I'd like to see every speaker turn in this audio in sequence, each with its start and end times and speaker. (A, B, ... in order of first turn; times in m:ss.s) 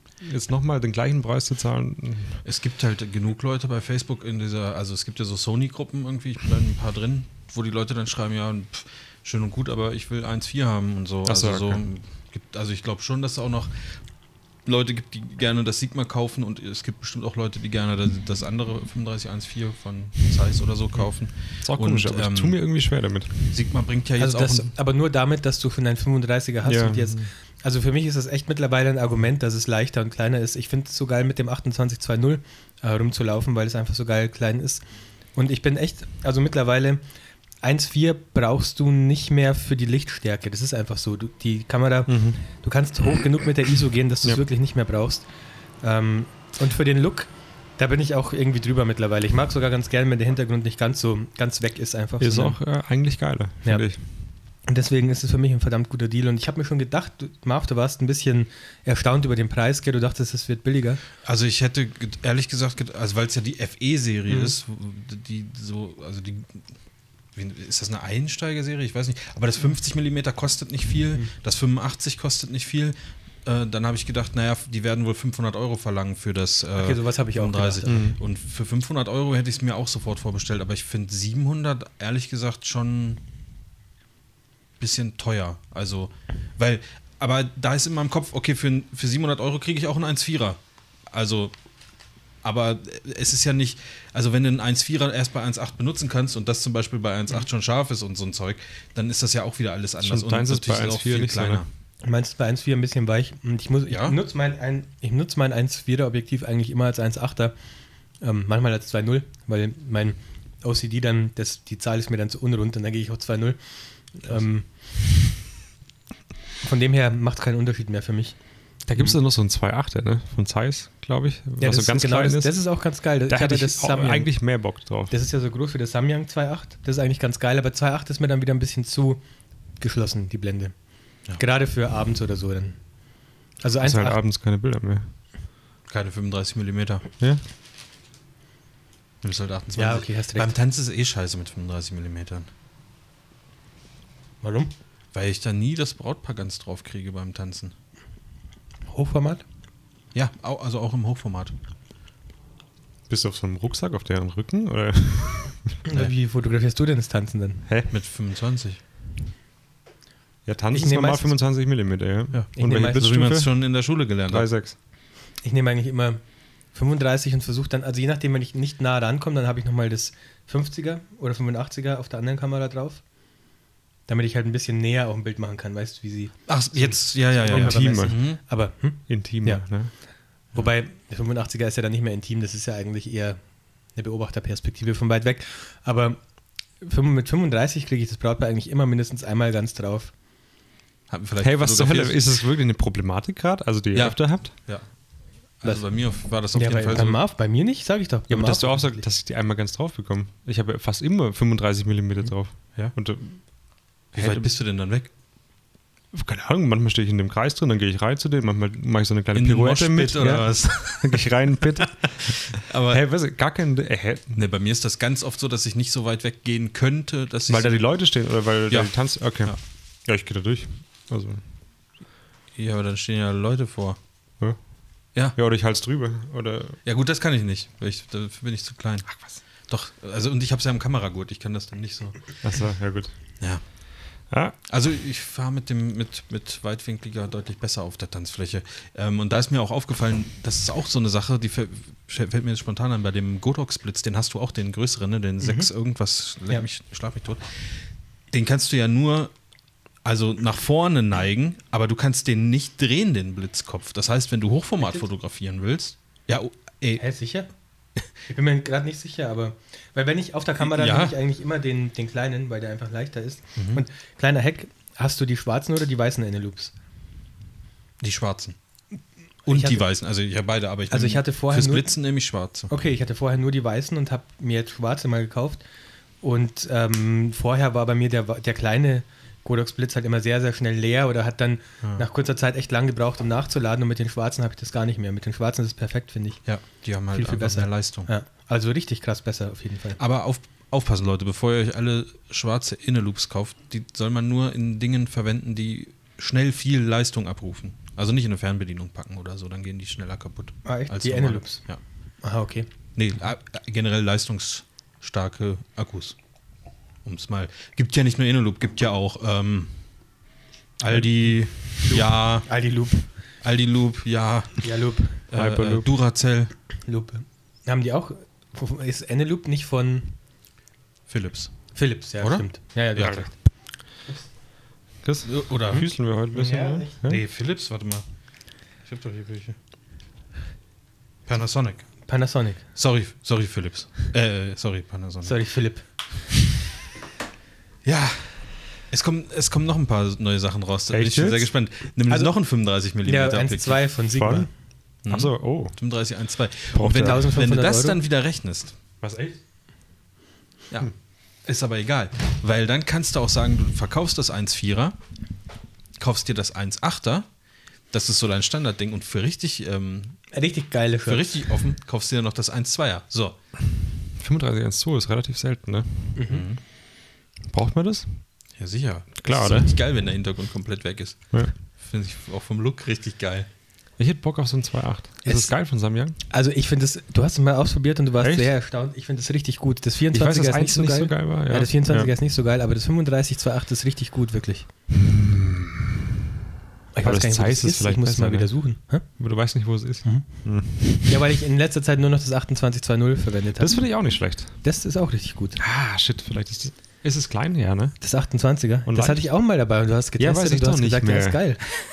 0:00.2-0:02.4 A
0:02.4-0:13.7 B
0:11.2-0:11.8 A
0:14.6-0:22.6 B
0:21.6-0:23.4 A
0:23.5-0:24.7 B
0:24.2-0:34.8 C
0:26.6-0:27.3 A
0:35.3-0:37.0 C
0:37.6-0:45.2 C
0:42.1-0:42.4 A
0:45.8-0:52.6 C
0:52.2-0:54.0 A
0:54.7-1:01.0 C
1:01.2-1:06.6 B
1:04.3-1:04.5 C
1:07.4-1:23.2 B
1:16.8-1:18.0 C
1:17.8-1:18.2 A
1:24.8-1:30.6 B
1:31.1-1:31.5 B
1:32.4-1:41.7 B
1:40.0-1:41.6 A
1:42.0-1:47.5 C
1:43.9-1:44.2 B
1:48.2-1:53.6 C
1:54.1-1:54.7 C
1:56.6-1:58.4 C
1:58.9-2:02.6 A
2:01.6-2:04.3 C
2:03.3-2:05.1 A
2:05.1-2:09.2 C
2:09.8-2:10.7 C
2:11.4-2:12.8 C
2:13.6-2:14.2 C
2:13.8-2:15.1 A
2:15.9-2:17.0 B
2:19.2-2:22.5 B
2:19.7-2:20.5 C
2:24.4-2:24.7 C
2:25.1-2:27.7 B
2:28.9-2:29.4 C
2:30.1-2:31.5 B
2:33.1-2:35.8 A
2:35.8-2:37.6 C
2:37.9-2:38.8 B
2:40.4-2:43.5 A
2:40.7-2:41.3 C
2:42.3-2:44.5 B
2:42.6-2:43.1 C
2:44.3-2:44.8 A
2:45.4-2:46.2 C
2:46.7-2:53.0 C
2:54.1-3:00.0 C
2:56.5-2:58.4 B
2:57.4-2:58.2 A
2:59.1-2:59.9 A
3:00.5-3:03.4 C
3:03.9-3:06.2 C
3:06.8-3:10.1 C
3:11.1-3:12.2 B
3:11.4-3:14.5 A
3:13.9-3:14.8 B
3:15.6-3:17.2 B
3:16.5-3:19.0 C
3:18.3-3:23.4 A
3:24.1-3:24.5 A
3:24.1-3:25.1 B
3:26.1-3:34.4 A
3:29.3-3:33.0 B
3:34.3-3:37.8 B
3:37.5-3:41.4 A
3:42.6-3:44.0 B
3:45.4-3:46.8 A
3:46.8-3:52.3 B
3:52.4-3:53.1 A
3:54.3-3:54.6 A
3:54.7-4:07.4 B
4:05.4-4:05.7 C
4:08.3-4:09.3 B
4:10.0-4:17.0 B
4:17.0-4:17.5 C
4:18.3-4:26.7 C
4:20.6-4:21.1 B
4:23.6-4:23.8 B
4:28.0-4:28.6 B
4:29.4-4:32.7 B
4:29.5-4:29.8 C
4:30.9-4:32.0 C
4:32.7-4:35.6 C
4:36.2-4:46.4 C
4:46.4-4:48.1 B
4:47.1-4:50.0 C
4:50.0-5:01.8 B
5:00.6-5:01.6 C
5:02.2-5:02.7 C
5:03.0-5:06.2 B
5:07.0-5:09.7 B
5:10.8-5:12.5 B
5:11.8-5:13.1 C
5:13.4-5:16.5 B
5:14.6-5:15.2 C
5:15.3-5:15.9 A
5:16.8-5:20.2 C
5:21.1-5:22.4 B
5:21.7-5:23.4 C
5:23.0-5:23.3 A
5:25.0-5:27.2 A
5:25.2-5:25.9 B
5:25.7-5:27.0 C
5:27.0-5:28.0 B
5:28.8-5:29.6 B
5:31.3-5:31.9 B
5:32.1-5:32.6 C
5:32.7-5:35.3 B
5:35.2-5:35.8 C
5:37.8-5:43.8 B
5:40.9-5:41.5 A
5:43.0-5:44.5 C
5:44.1-5:44.5 A
5:45.0-5:48.7 B
5:45.1-5:45.8 A
5:46.7-5:47.3 A
5:46.9-5:48.0 C
5:49.0-5:49.4 A
5:51.4-5:55.0 B
5:56.0-5:57.3 B
5:57.9-6:00.2 B
6:00.3-6:01.6 C
6:01.1-6:03.4 B
6:04.2-6:06.2 A
6:06.2-6:06.4 C
6:06.3-6:06.6 B
6:07.5-6:08.2 A
6:08.6-6:13.5 B
6:09.2-6:09.7 A
6:14.0-6:16.2 A
6:15.2-6:15.5 C
6:16.3-6:24.7 C
6:18.2-6:18.5 A
6:20.1-6:22.1 A
6:24.9-6:25.9 A
6:26.9-6:29.1 C
6:27.0-6:28.5 A
6:29.0-6:31.2 A
6:30.0-6:33.8 C
6:33.6-6:34.6 A
6:34.6-6:35.6 C
6:35.6-6:38.0 A
6:38.0-6:41.6 C
6:38.8-6:39.3 A
6:40.2-6:41.4 A